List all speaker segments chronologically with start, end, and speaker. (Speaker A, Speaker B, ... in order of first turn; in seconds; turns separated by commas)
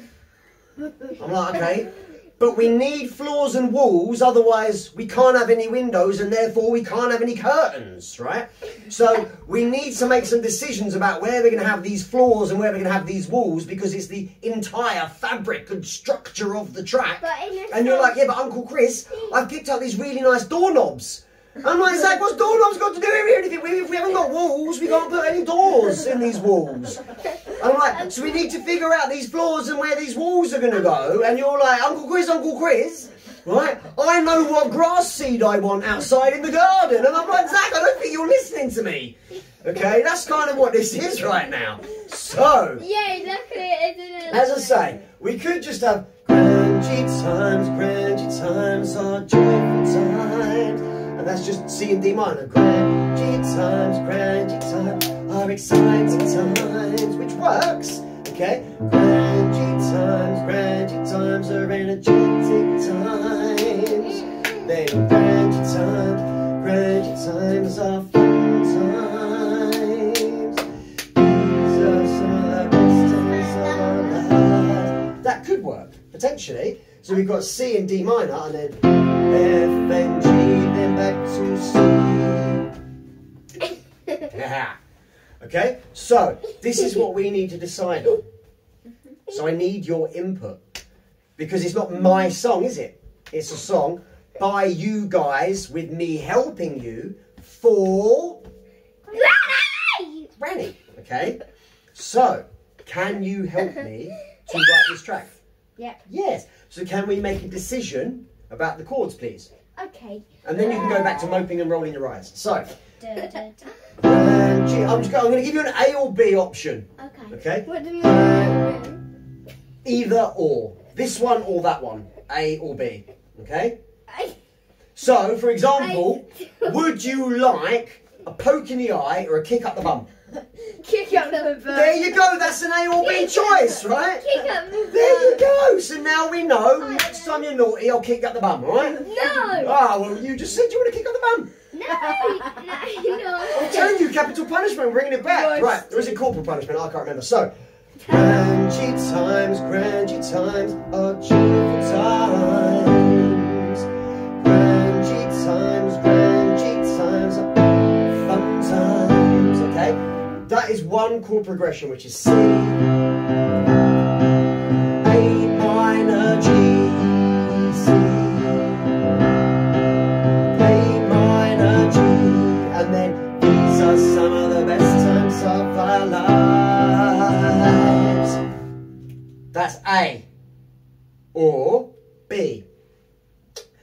Speaker A: 1.2-42.9, Speaker B: 17.2-18.2, Speaker B: 42.9-44.9, Speaker C: 42.9-44.6, Speaker A: 44.3-70.6, Speaker B: 64.0-64.5, Speaker A: 71.1-82.7, Speaker B: 73.1-74.8, Speaker A: 84.3-84.8, Speaker A: 85.4-88.2, Speaker A: 89.3-90.6, Speaker A: 91.4-98.4, Speaker B: 99.1-100.3, Speaker C: 99.1-99.7, Speaker A: 100.3-101.4, Speaker A: 101.9-105.4, Speaker A: 106.1-109.5, Speaker C: 109.8-110.2, Speaker A: 110.4-112.7, Speaker C: 113.0-113.7, Speaker A: 114.0-118.7, Speaker B: 117.0-119.0, Speaker A: 119.8-123.8, Speaker A: 125.0-130.1, Speaker C: 130.6-132.4, Speaker B: 131.1-131.5, Speaker A: 131.7-141.5, Speaker B: 133.0-135.4, Speaker C: 133.2-133.6, Speaker C: 134.2-135.4, Speaker B: 136.8-137.5, Speaker B: 139.0-139.8, Speaker C: 139.0-139.7, Speaker B: 141.7-144.1, Speaker C: 141.9-142.8, Speaker A: 143.5-147.5, Speaker C: 145.3-146.2, Speaker A: 148.0-153.8, Speaker A: 154.4-162.8, Speaker A: 165.0-168.9, Speaker A: 170.5-178.4, Speaker A: 179.5-180.2, Speaker A: 181.3-182.6